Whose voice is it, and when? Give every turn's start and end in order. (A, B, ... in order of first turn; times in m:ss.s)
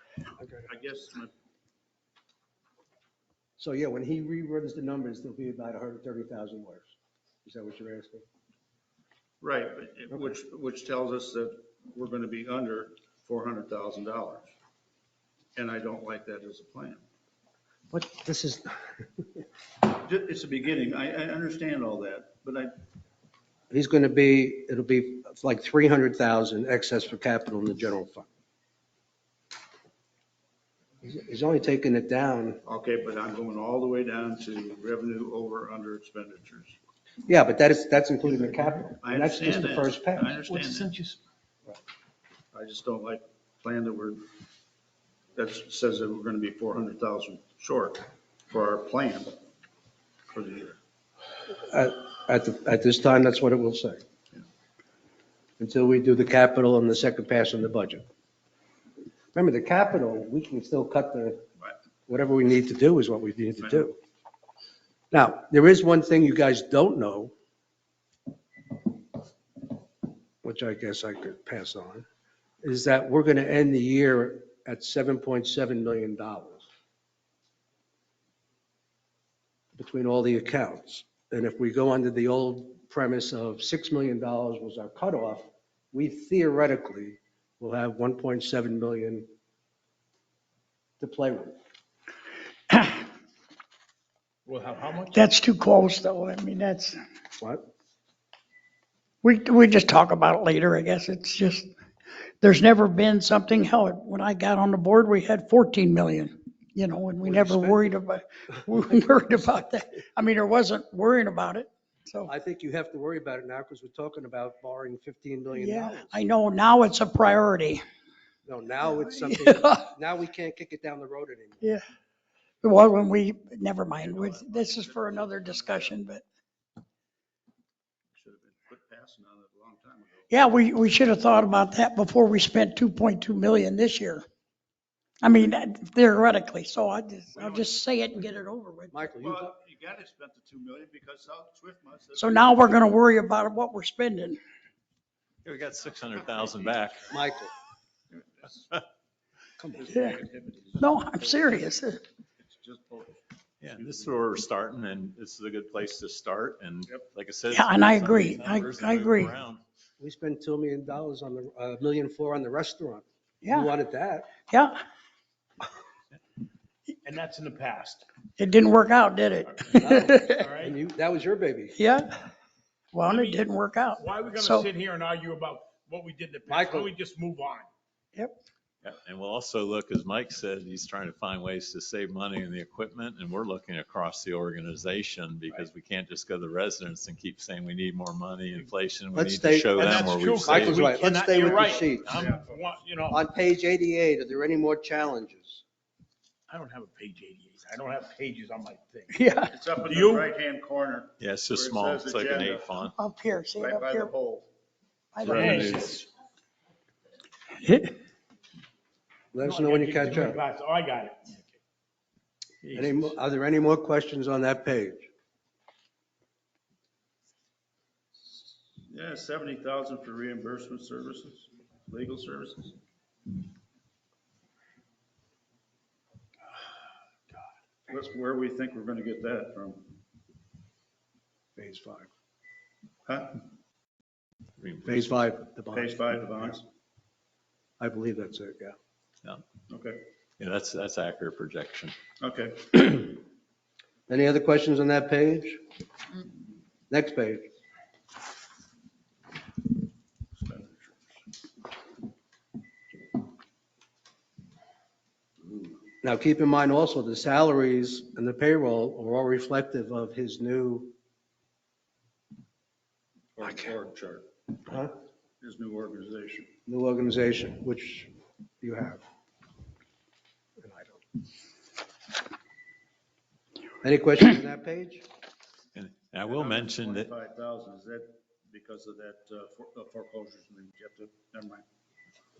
0:00.4-0:00.7 A
0:00.7-0:01.3 B
0:03.6-0:06.9 A
0:07.4-0:08.2 A
0:09.4-0:14.5 B
0:15.6-0:17.0 B
0:17.9-0:18.8 A
0:19.9-0:22.7 B
0:23.7-0:28.3 A
0:31.0-0:32.6 A
0:32.6-0:36.8 B
0:37.2-0:40.9 A
0:39.0-0:40.9 B
0:42.5-0:44.2 B
0:45.4-0:49.3 B
0:50.3-0:50.8 B
0:51.7-0:54.0 A
0:55.6-0:58.0 A
0:59.3-1:01.4 A
1:02.1-1:04.0 A
1:05.1-1:07.3 A
1:10.4-1:12.0 A
1:12.6-1:16.6 A
1:19.7-1:29.3 A
1:31.0-1:31.6 A
1:32.7-1:33.0 C
1:34.4-1:35.2 D
1:35.1-1:37.0 C
1:37.4-1:37.6 A
1:39.2-1:41.7 C
1:42.4-1:52.3 C
1:47.2-1:47.9 A
1:52.3-1:56.1 A
1:55.5-1:57.8 C
1:58.4-2:01.6 A
1:58.9-1:59.8 C
2:02.6-2:06.2 C
2:04.0-2:06.0 B
2:08.1-2:10.4 B
2:10.3-2:14.2 C
2:15.2-2:19.1 C
2:17.3-2:18.3 B
2:18.9-2:19.6 A
2:19.2-2:22.8 B
2:22.2-2:24.4 C
2:25.4-2:27.1 E
2:27.1-2:27.5 A
2:28.1-2:28.8 B
2:29.6-2:29.9 A
2:29.8-2:31.7 B
2:29.9-2:30.2 C
2:30.8-2:32.0 C
2:32.4-2:34.2 B
2:33.6-2:39.6 E
2:37.5-2:39.3 C
2:40.0-2:44.3 A
2:43.4-2:43.7 C
2:44.5-2:44.8 C
2:47.0-2:48.0 D
2:48.4-2:50.5 C
2:49.7-2:51.8 A
2:50.4-2:50.8 D
2:51.8-2:52.3 C
2:52.9-2:54.7 C
2:53.0-2:53.4 D
2:54.0-2:57.7 D
2:56.5-2:56.9 A
2:58.8-3:10.9 E
3:09.1-3:12.1 A
3:09.7-3:13.2 D
3:11.3-3:12.7 B
3:13.1-3:15.6 A
3:16.5-3:19.2 D
3:19.1-3:19.5 C
3:19.5-3:22.7 B
3:19.8-3:20.3 D
3:21.2-3:22.9 E
3:22.7-3:24.1 C
3:23.6-3:24.5 B
3:25.1-3:26.0 C
3:25.2-3:25.9 B
3:25.3-3:26.0 D
3:25.3-3:25.8 E
3:27.6-3:27.9 C
3:29.3-3:30.4 A
3:29.4-3:31.5 D
3:32.6-3:33.1 D
3:32.7-3:35.1 A
3:38.3-3:42.7 B
3:47.9-3:49.9 B
3:51.6-3:52.1 A
3:53.0-3:53.4 B
3:54.6-3:55.3 E
3:54.8-3:56.6 A
3:55.7-3:56.6 B
3:57.8-3:58.7 A
3:59.7-4:00.0 B
4:00.4-4:01.9 E
4:02.2-4:03.2 B
4:04.1-4:05.6 A
4:06.9-4:07.5 A
4:10.3-4:11.2 B
4:16.0-4:20.9 A
4:23.4-4:24.3 B
4:24.7-4:24.9 A
4:25.4-4:26.5 B
4:26.7-4:29.0 A
4:30.6-4:31.0 A
4:33.8-4:35.0 A
4:35.7-4:37.1 E
4:36.2-4:41.6 B